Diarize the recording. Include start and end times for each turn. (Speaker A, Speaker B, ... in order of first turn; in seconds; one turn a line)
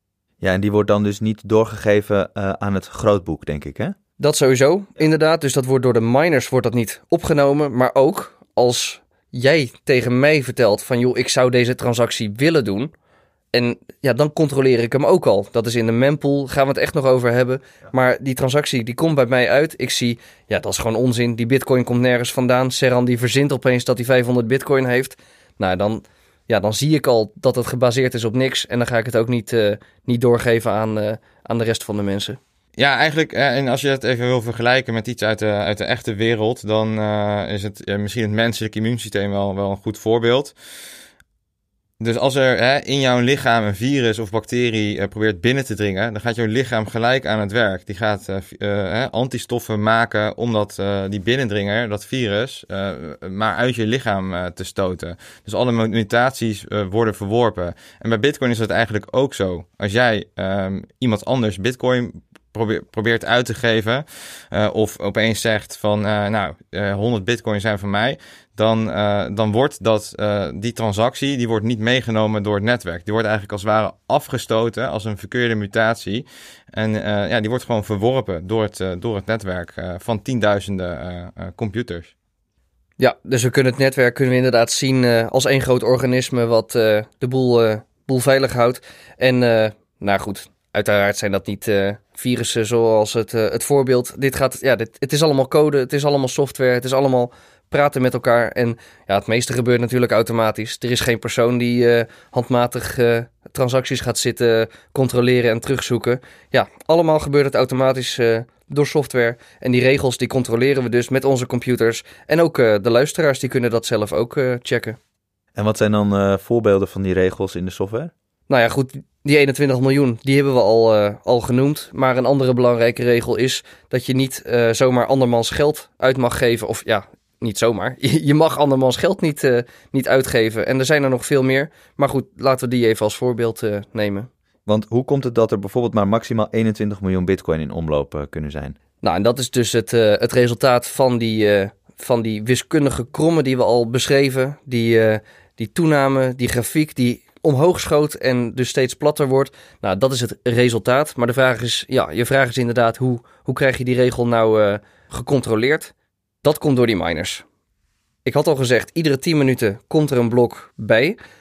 Speaker A: 0.4-4.0
Speaker B: 4.2-12.9
Speaker B: 13.5-32.4
Speaker C: 32.8-40.5
Speaker C: 42.0-82.1
Speaker B: 83.0-115.0
Speaker A: 115.6-118.1
Speaker B: 118.5-134.3
Speaker A: 134.7-138.8
Speaker B: 139.0-155.9
Speaker B: 156.4-157.4
Speaker B: 158.2-161.2